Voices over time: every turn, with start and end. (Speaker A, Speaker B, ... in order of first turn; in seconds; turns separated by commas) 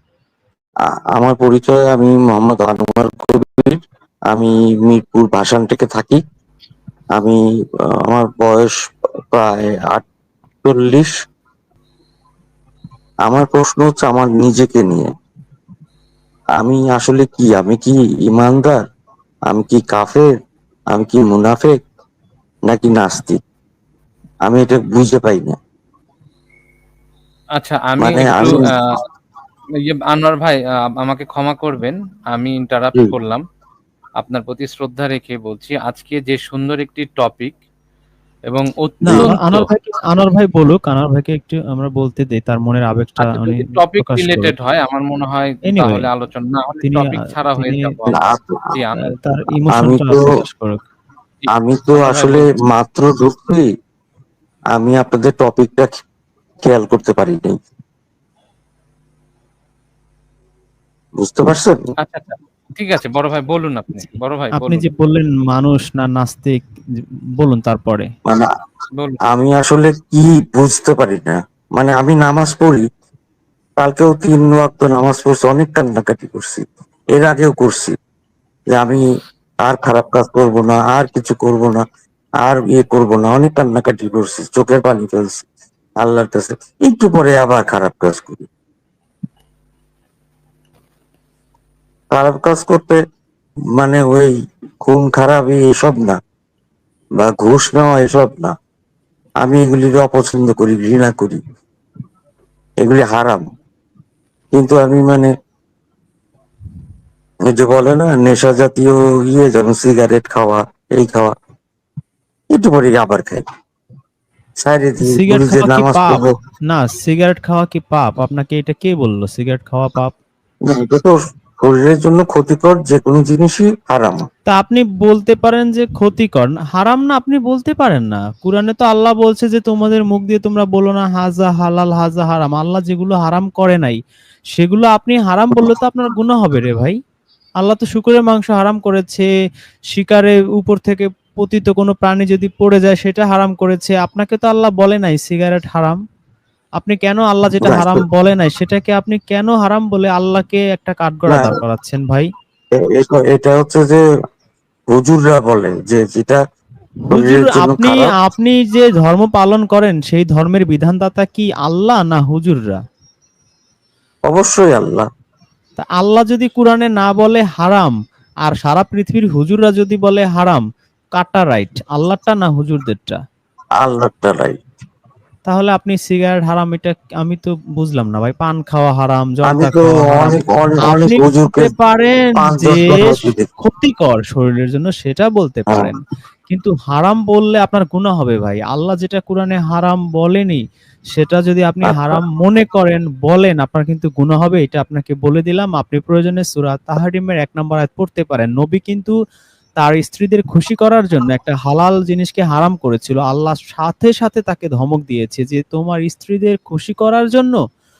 Speaker A: 0.9-6.2, Speaker A: 7.9-8.7, Speaker A: 9.3-10.1, Speaker A: 10.6-11.1, Speaker A: 13.2-15.1, Speaker A: 16.6-18.8, Speaker A: 19.5-20.3, Speaker A: 20.9-21.8, Speaker A: 22.7-23.4, Speaker A: 24.4-25.6, Speaker B: 27.6-29.0, Speaker A: 28.0-28.7, Speaker B: 29.8-33.4, Speaker B: 34.2-37.5, Speaker B: 38.5-39.7, Speaker C: 39.1-44.5, Speaker B: 43.2-49.2, Speaker C: 45.7-46.1, Speaker C: 46.8-47.9, Speaker A: 48.1-48.8, Speaker C: 49.0-50.8, Speaker A: 49.7-50.3, Speaker B: 51.4-52.6, Speaker A: 51.5-53.7, Speaker A: 54.7-56.0, Speaker A: 56.6-57.5, Speaker A: 61.2-61.8, Speaker B: 62.0-64.8, Speaker C: 64.5-66.6, Speaker C: 67.4-68.1, Speaker A: 69.2-72.9, Speaker A: 73.8-77.9, Speaker A: 78.7-79.0, Speaker A: 79.6-81.8, Speaker A: 82.4-85.5, Speaker A: 86.0-88.5, Speaker A: 92.1-93.0, Speaker A: 93.8-96.2, Speaker A: 97.2-98.5, Speaker A: 99.4-101.4, Speaker A: 102.8-103.4, Speaker A: 104.5-105.3, Speaker A: 107.4-111.3, Speaker A: 112.5-113.5, Speaker A: 114.6-116.3, Speaker C: 115.0-120.1, Speaker A: 120.7-124.3, Speaker C: 124.5-134.0, Speaker C: 134.5-137.0, Speaker C: 137.6-139.3, Speaker C: 139.9-146.0, Speaker C: 146.8-152.3, Speaker A: 147.6-148.0, Speaker A: 151.3-151.6, Speaker A: 152.8-154.0, Speaker A: 154.9-156.4, Speaker A: 157.1-158.1, Speaker C: 157.1-162.8, Speaker A: 164.3-165.1, Speaker C: 165.8-170.6, Speaker C: 171.2-173.2, Speaker A: 173.8-174.6, Speaker C: 175.5-190.6, Speaker A: 179.4-181.7, Speaker A: 182.3-183.5, Speaker C: 191.1-199.1, Speaker A: 191.8-192.2, Speaker C: 199.8-207.6